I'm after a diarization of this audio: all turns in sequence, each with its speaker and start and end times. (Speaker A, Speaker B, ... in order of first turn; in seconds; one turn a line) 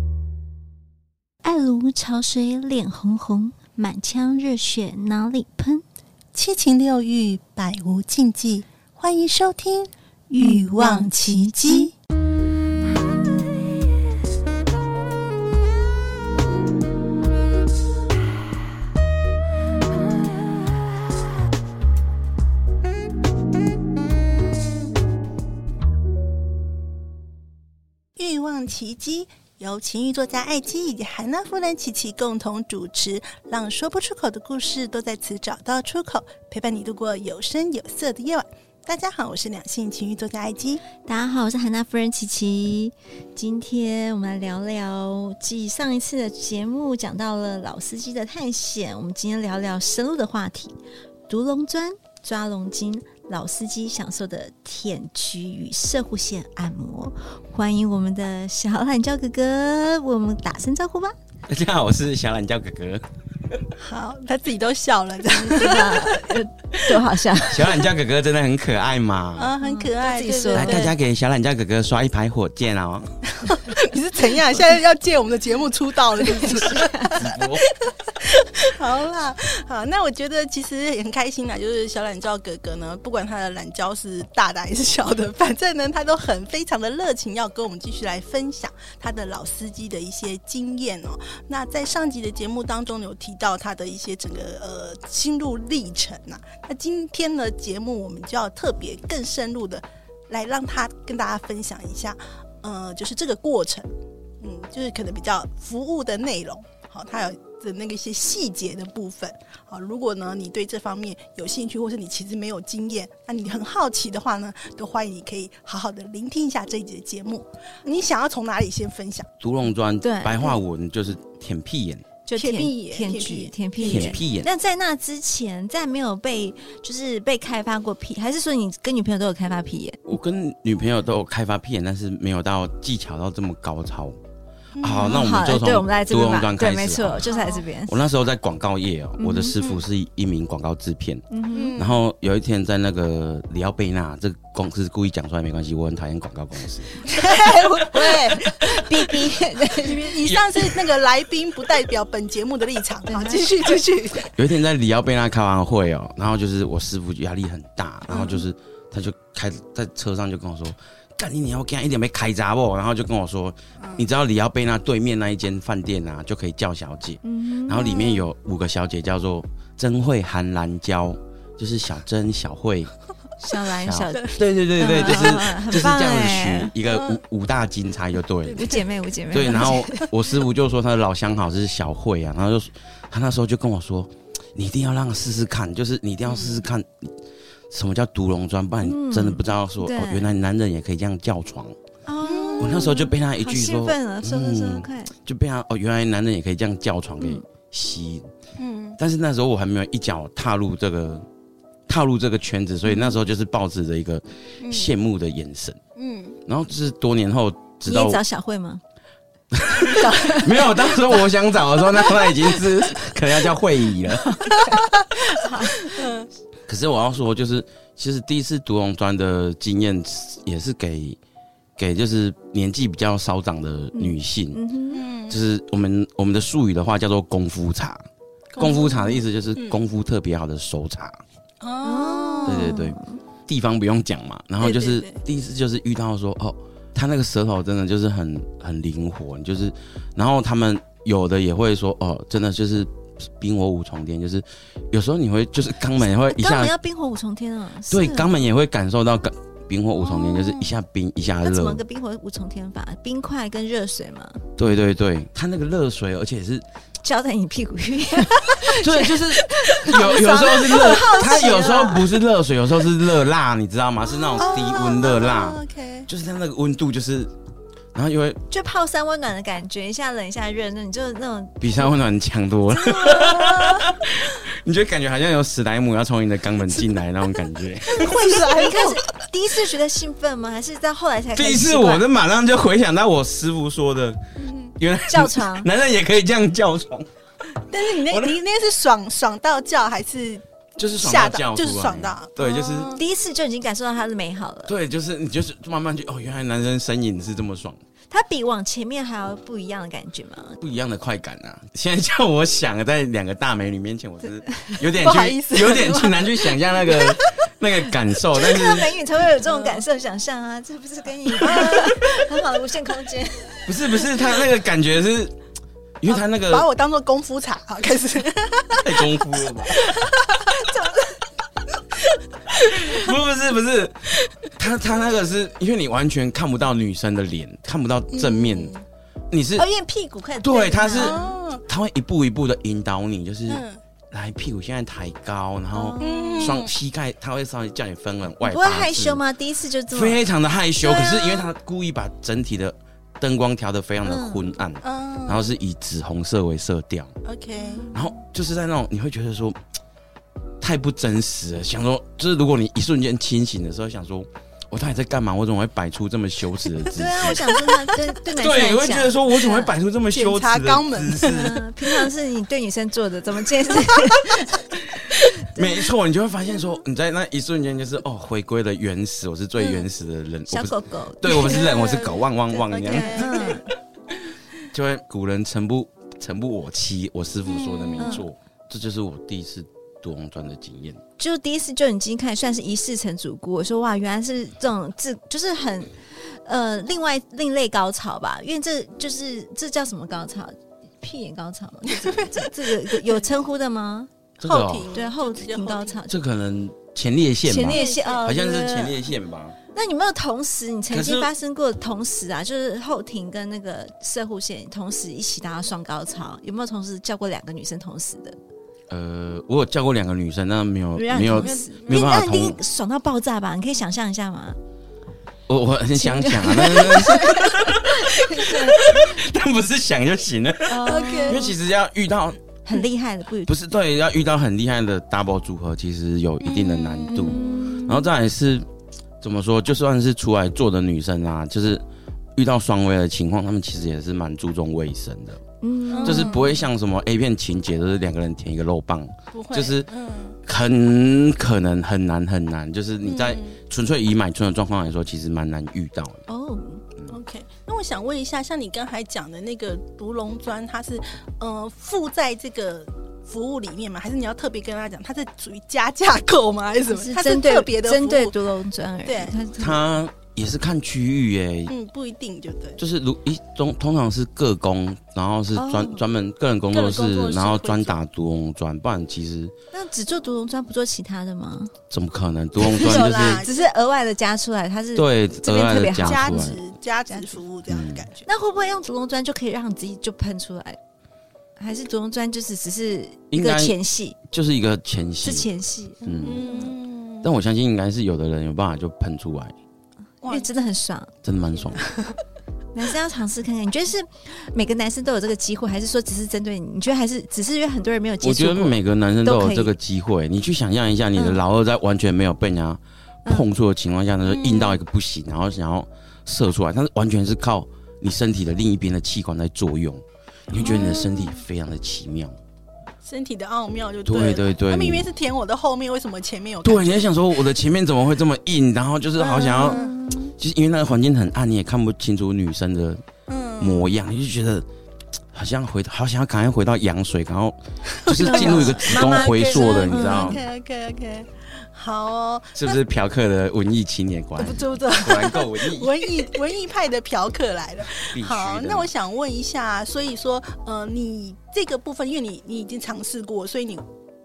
Speaker A: 1.4-5.8
Speaker B: 6.3-11.9
Speaker A: 10.3-11.9
Speaker B: 28.2-40.8
Speaker A: 41.0-50.8
Speaker A: 51.3-61.1
Speaker C: 61.5-63.6
Speaker B: 63.8-66.3
Speaker A: 65.3-67.8
Speaker C: 67.5-69.5
Speaker B: 69.4-71.0
Speaker A: 69.6-70.9
Speaker C: 70.5-73.1
Speaker B: 73.4-119.3
Speaker A: 76.4-77.1
Speaker C: 77.1-77.7
Speaker C: 119.4-122.0
Speaker A: 120.0-120.6
Speaker A: 122.3-130.1
Speaker B: 122.4-124.2
Speaker C: 123.8-124.5
Speaker C: 130.1-134.2
Speaker B: 134.8-135.3
Speaker C: 134.8-137.2
Speaker A: 135.0-138.0
Speaker B: 137.2-137.6
Speaker C: 137.9-146.9
Speaker A: 139.2-139.6
Speaker A: 141.3-141.8
Speaker B: 141.5-142.0
Speaker B: 147.0-148.5
Speaker A: 147.5-150.2
Speaker B: 149.8-154.3
Speaker A: 153.1-153.7
Speaker C: 154.4-172.9
Speaker B: 163.8-164.1
Speaker A: 167.2-168.2
Speaker A: 173.4-176.7
Speaker C: 173.8-178.8
Speaker B: 174.8-175.4
Speaker B: 176.8-177.2
Speaker B: 178.5-178.8
Speaker A: 178.6-180.0
Speaker C: 179.3-187.1
Speaker B: 186.3-186.6
Speaker C: 187.7-191.8
Speaker A: 188.8-190.3
Speaker A: 192.1-195.1
Speaker B: 192.2-192.9
Speaker C: 192.6-198.3
Speaker B: 198.6-199.0
Speaker C: 199.0-201.2
Speaker C: 201.9-205.8
Speaker A: 202.9-203.1
Speaker B: 204.6-204.9
Speaker B: 205.9-206.4
Speaker C: 206.4-208.2
Speaker A: 207.9-208.8
Speaker C: 209.5-214.5
Speaker A: 210.0-210.9
Speaker A: 214.6-216.0
Speaker B: 215.8-216.3
Speaker C: 216.7-221.2
Speaker C: 221.8-224.6
Speaker A: 223.9-225.1
Speaker B: 224.9-225.4
Speaker C: 225.3-228.0
Speaker B: 228.6-229.8
Speaker C: 228.6-231.2
Speaker B: 231.6-232.7
Speaker A: 231.8-233.2
Speaker C: 232.4-246.7
Speaker B: 234.6-235.2
Speaker A: 246.1-248.4
Speaker C: 247.9-251.8
Speaker B: 250.2-250.7
Speaker A: 251.4-254.4
Speaker C: 254.6-256.6
Speaker A: 257.0-262.1
Speaker C: 258.7-267.3
Speaker B: 260.8-261.7
Speaker B: 264.4-266.1
Speaker C: 267.9-268.4
Speaker A: 268.5-271.9
Speaker C: 271.6-278.3
Speaker A: 272.7-273.9
Speaker B: 277.9-279.0
Speaker A: 277.9-282.0
Speaker C: 281.3-284.2
Speaker B: 284.4-284.7
Speaker C: 284.8-287.1
Speaker A: 285.1-285.7
Speaker B: 287.7-290.4
Speaker C: 288.0-288.3
Speaker C: 290.8-292.9
Speaker B: 291.0-293.0
Speaker A: 292.8-294.7
Speaker C: 294.7-297.8
Speaker A: 298.1-300.6
Speaker C: 300.6-308.9
Speaker B: 305.0-306.5
Speaker A: 308.3-314.1
Speaker B: 309.4-309.8
Speaker B: 311.4-312.2
Speaker C: 313.6-315.3
Speaker C: 316.0-316.6
Speaker B: 316.1-319.1
Speaker C: 318.8-320.0
Speaker B: 319.7-320.7
Speaker A: 320.7-321.1
Speaker C: 322.5-328.7
Speaker B: 328.1-328.8
Speaker C: 329.3-329.7
Speaker A: 329.6-331.3
Speaker C: 330.4-339.2
Speaker B: 330.9-331.6
Speaker B: 333.5-333.8
Speaker A: 335.8-336.6
Speaker B: 336.0-336.7
Speaker A: 338.4-340.2
Speaker C: 339.9-347.1
Speaker B: 340.8-341.5
Speaker A: 344.0-344.5
Speaker B: 344.8-345.5
Speaker B: 347.2-347.9
Speaker C: 347.9-349.6
Speaker C: 350.6-357.4
Speaker A: 356.9-359.7
Speaker B: 357.4-358.0
Speaker C: 358.4-361.6
Speaker B: 360.1-361.6
Speaker A: 361.2-364.6
Speaker C: 364.9-373.5
Speaker A: 370.5-371.6
Speaker B: 371.3-373.6
Speaker A: 372.9-373.6
Speaker C: 374.6-381.0
Speaker B: 377.4-378.2
Speaker A: 378.0-378.2
Speaker A: 381.2-394.1
Speaker B: 391.9-393.3
Speaker C: 394.4-394.9
Speaker B: 394.4-396.0
Speaker A: 394.9-396.1
Speaker C: 396.1-399.6
Speaker A: 397.4-399.1
Speaker B: 397.6-398.4
Speaker A: 399.7-408.4
Speaker C: 400.9-401.3
Speaker C: 408.9-412.6
Speaker A: 410.9-414.6
Speaker B: 411.4-411.9
Speaker C: 415.5-422.4
Speaker A: 415.9-419.1
Speaker A: 420.7-421.4
Speaker B: 420.8-421.5
Speaker A: 422.6-423.5
Speaker C: 423.4-428.6
Speaker B: 426.4-427.9
Speaker A: 427.1-428.0
Speaker C: 429.2-431.8
Speaker C: 432.4-435.4
Speaker A: 435.6-436.6
Speaker B: 435.9-436.5
Speaker C: 436.0-439.9
Speaker B: 439.3-440.4
Speaker C: 440.4-446.2
Speaker B: 443.0-443.6
Speaker A: 446.3-446.8
Speaker B: 447.1-458.4
Speaker A: 456.9-459.8
Speaker B: 459.0-459.4
Speaker C: 459.6-461.7
Speaker B: 461.7-462.8
Speaker C: 462.8-469.5
Speaker A: 465.5-466.0
Speaker B: 466.7-468.0
Speaker A: 469.7-471.7
Speaker C: 471.9-473.4
Speaker B: 472.6-473.7
Speaker A: 472.6-476.5
Speaker C: 474.9-476.6
Speaker B: 475.9-478.2
Speaker C: 477.7-478.1
Speaker A: 478.2-480.8
Speaker A: 481.6-484.2
Speaker C: 483.3-483.8
Speaker C: 484.3-485.5
Speaker A: 485.2-486.7
Speaker C: 486.0-486.4
Speaker B: 486.2-487.3
Speaker C: 487.2-489.5
Speaker B: 490.2-490.6
Speaker A: 490.2-491.1
Speaker C: 491.2-491.8
Speaker B: 491.7-492.1
Speaker A: 492.7-499.7
Speaker C: 498.2-512.4
Speaker A: 501.1-501.4
Speaker B: 504.2-504.8
Speaker B: 510.6-511.4
Speaker A: 510.6-511.0
Speaker B: 513.0-517.1
Speaker C: 514.0-515.0
Speaker C: 516.6-519.8
Speaker B: 519.2-520.0
Speaker A: 519.5-520.3
Speaker C: 520.4-523.0
Speaker B: 523.3-523.9
Speaker C: 523.6-524.6
Speaker C: 525.3-530.4
Speaker B: 528.0-532.8
Speaker A: 528.2-530.4
Speaker C: 532.5-536.1
Speaker B: 534.4-543.9
Speaker C: 537.9-538.9